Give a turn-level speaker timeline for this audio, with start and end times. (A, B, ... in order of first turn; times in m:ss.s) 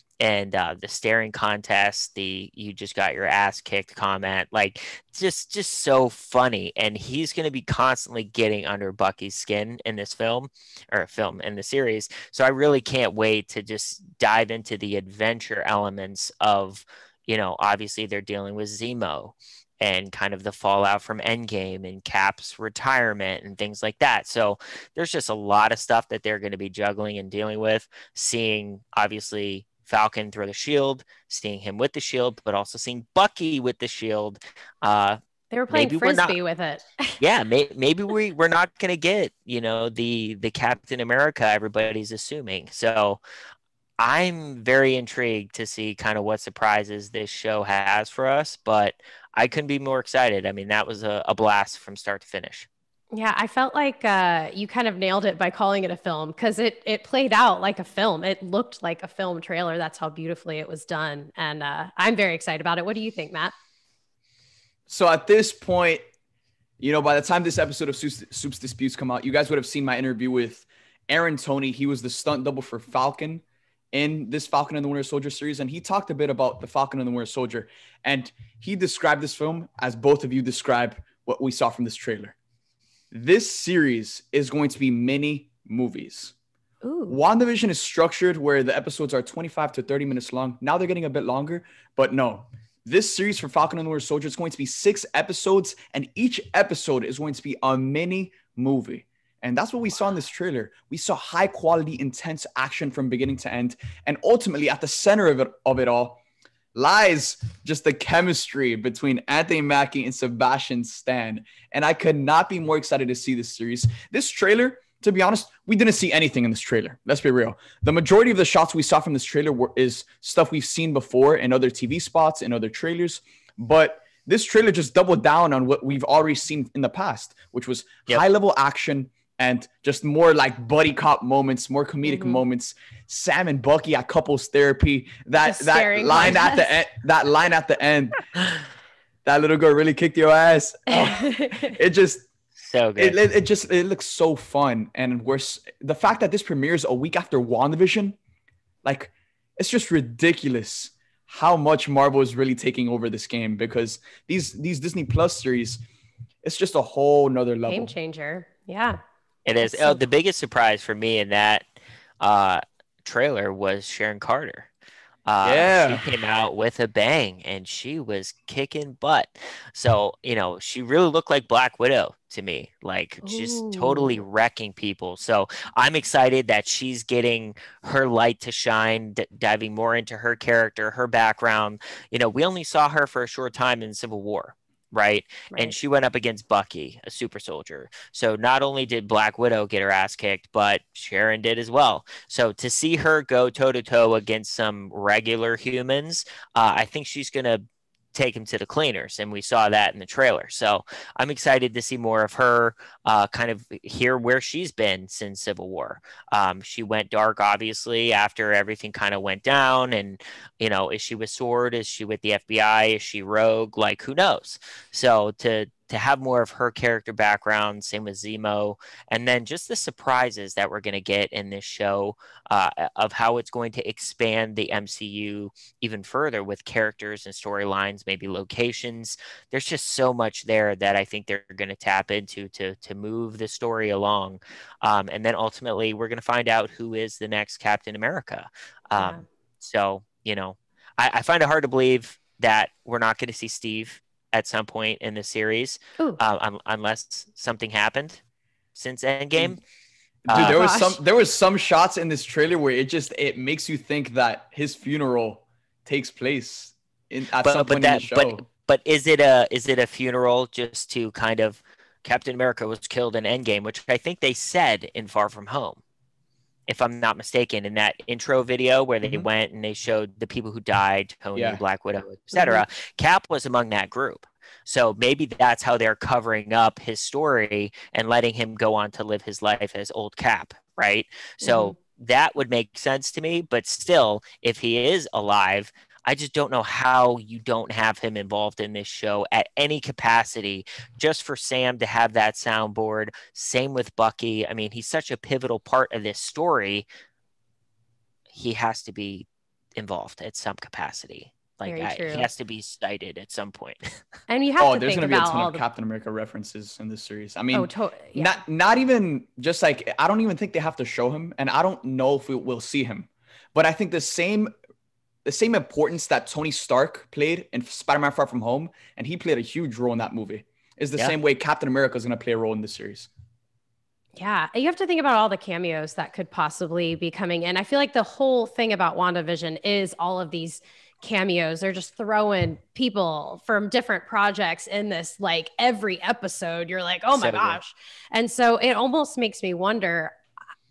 0:00.2-0:36.4 A
0:35.5-0:37.2 B
0:37.2-0:43.2 A
0:44.0-0:52.7 A
0:53.1-1:03.5 B
1:04.9-1:06.0 C
1:06.8-1:22.3 C
1:23.1-1:26.3 C
1:26.8-1:27.2 B
1:27.1-1:46.2 C
1:46.7-2:18.3 C
2:12.0-2:12.4 B
2:15.4-2:16.8 B
2:19.2-2:22.3 C
2:20.9-2:21.7 B
2:22.6-2:23.2 A
2:23.0-2:28.2 C
2:28.8-2:35.8 C
2:36.4-2:37.9 C
2:37.7-2:39.0 B
2:39.4-2:41.7 A
2:39.6-2:40.0 B
2:42.2-2:44.7 A
2:45.3-4:08.2 A
2:45.4-2:46.0 C
2:53.2-2:54.2 B
3:59.0-3:59.2 B
4:08.7-4:09.6 A
4:10.2-4:18.4 C
4:10.3-4:10.6 A
4:10.3-4:11.0 B
4:17.4-4:25.8 A
4:26.7-4:56.9 A
4:31.3-4:31.6 C
4:32.3-4:32.6 B
4:41.4-4:41.7 B
4:58.3-5:03.9 A
5:01.6-5:02.3 B
5:04.3-5:05.6 B
5:04.6-5:14.5 C
5:07.5-5:08.4 B
5:15.2-5:23.1 C
5:24.2-5:40.2 B
5:37.1-5:37.6 A